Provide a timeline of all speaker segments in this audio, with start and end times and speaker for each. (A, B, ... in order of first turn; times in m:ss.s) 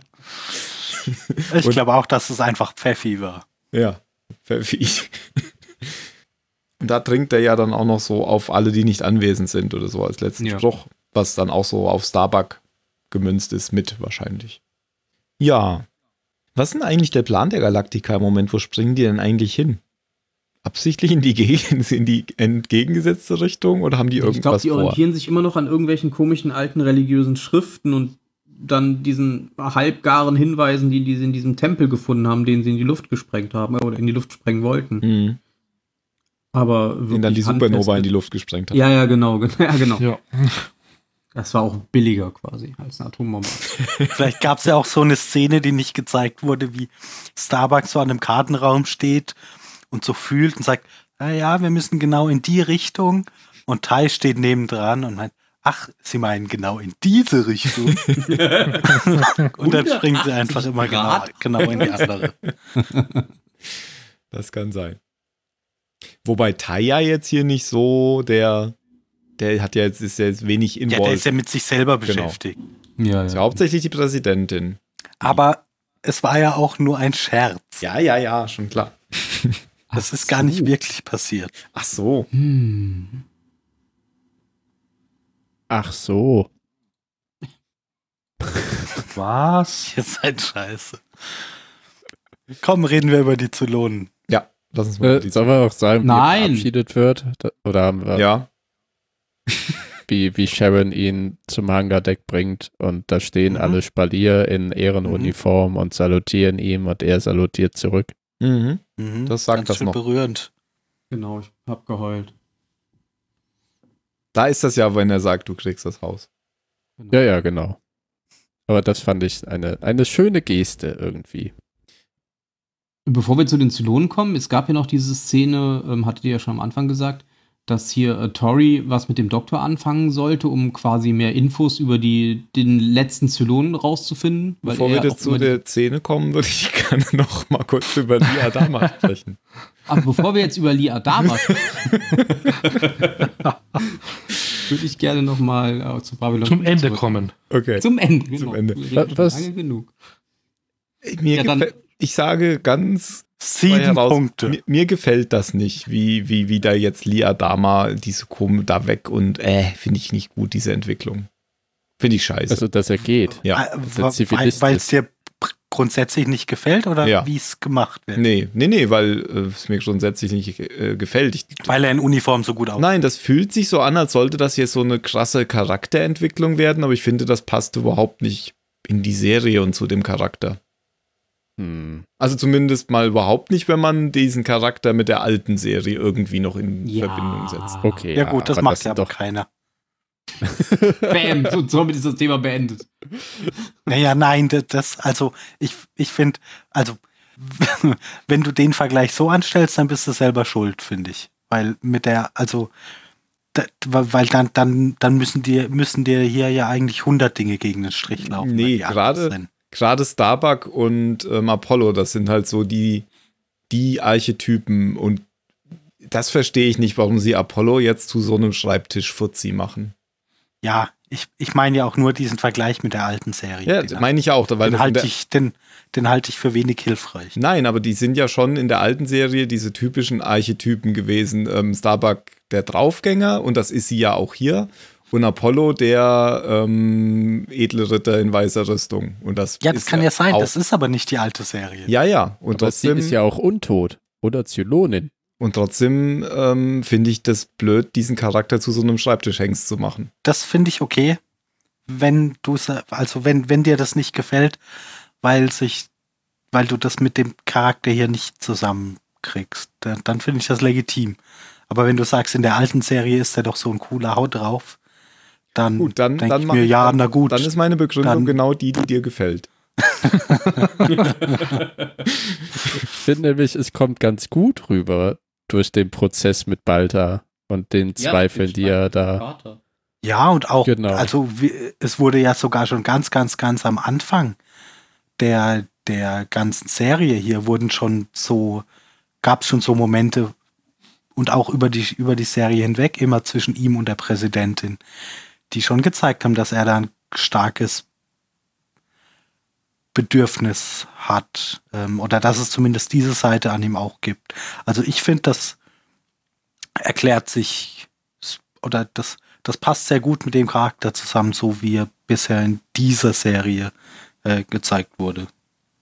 0:01.1-0:01.8 A
0:01.5-0:03.4 B
0:03.7-0:06.0 A
0:06.8-0:14.6 A
0:15.4-0:15.9 A
0:16.6-0:19.8 A
0:20.6-0:25.0 A
0:24.2-0:35.0 C
0:35.0-0:35.4 A
0:36.5-0:38.1 C
0:37.1-0:38.8 A
0:38.7-0:40.0 C
0:40.0-0:40.7 D
0:41.4-0:43.7 C
0:43.8-0:44.1 A
0:44.1-0:49.4 B
0:49.9-1:02.4 B
0:57.9-0:58.3 A
0:58.2-0:59.1 C
0:59.6-1:02.1 C
1:02.8-1:03.2 C
1:04.3-1:05.0 A
1:06.2-1:08.8 A
1:09.4-1:11.3 A
1:10.9-1:12.6 B
1:12.0-1:12.4 A
1:13.0-1:13.6 C
1:13.3-1:15.4 A
1:15.2-1:17.8 B
1:17.8-1:19.6 A
1:19.9-1:20.7 C
1:20.0-1:21.5 B
1:21.7-1:22.3 A
1:22.3-1:23.2 C
1:25.7-1:26.5 E
1:29.1-1:29.9 D
1:29.9-1:31.0 B
1:32.6-1:34.1 B
1:34.3-1:35.5 A
1:35.0-1:38.3 E
1:36.0-1:36.7 C
1:38.1-1:38.5 A
1:40.1-1:48.1 E
1:43.5-1:43.8 B
1:45.0-1:45.3 B
1:48.4-1:50.0 A
1:49.0-1:50.5 B
1:51.1-1:52.3 C
1:54.3-1:56.3 A
1:57.1-1:57.8 E
1:58.7-2:01.5 E
2:03.0-2:15.6 C
2:14.6-2:19.4 A
2:19.9-2:21.9 C
2:21.3-2:22.2 A
2:22.6-2:24.0 C
2:24.7-2:27.2 C
2:26.4-2:27.3 D
2:27.5-2:28.8 A
2:27.8-2:29.9 C
2:28.9-2:29.5 E
2:31.0-2:41.3 A
2:31.3-2:31.7 C
2:33.4-2:34.6 B
2:42.0-2:42.6 A
2:42.5-2:44.9 E
2:43.4-2:48.2 B
2:47.0-2:47.3 A
2:48.1-2:51.7 A
2:51.6-2:52.9 B
2:52.8-3:00.6 A
3:01.6-3:02.0 E
3:02.2-3:07.7 A
3:06.8-3:08.1 C
3:07.8-3:09.1 E
3:08.2-3:09.5 B
3:10.5-3:11.3 E
3:11.0-3:13.5 C
3:13.9-3:22.7 B
3:23.5-3:29.5 B
3:28.2-3:33.1 A
3:33.7-3:35.2 A
3:36.0-3:39.9 A
3:40.6-3:44.0 B
3:43.6-3:45.1 A
3:44.6-3:47.4 B
3:47.4-4:00.5 A
3:59.6-4:01.9 B
4:01.9-4:03.2 A
4:02.5-4:05.1 E
4:05.4-4:10.1 A
4:10.2-4:11.2 B
4:11.9-4:14.6 B
4:15.2-4:15.9 B
4:16.5-4:24.8 B
4:25.5-4:27.5 B
4:25.8-4:29.5 A
4:28.0-4:28.4 B
4:29.9-4:30.6 B
4:30.9-4:31.9 C
4:33.0-4:39.2 E
4:38.0-4:39.6 C
4:40.0-4:44.4 B
4:40.6-4:41.1 E
4:45.2-4:48.6 B
4:49.2-4:50.3 B
4:51.2-4:54.8 B
4:55.5-4:57.9 B
4:59.9-5:05.6 B
5:06.8-5:13.7 B
5:14.2-5:15.3 B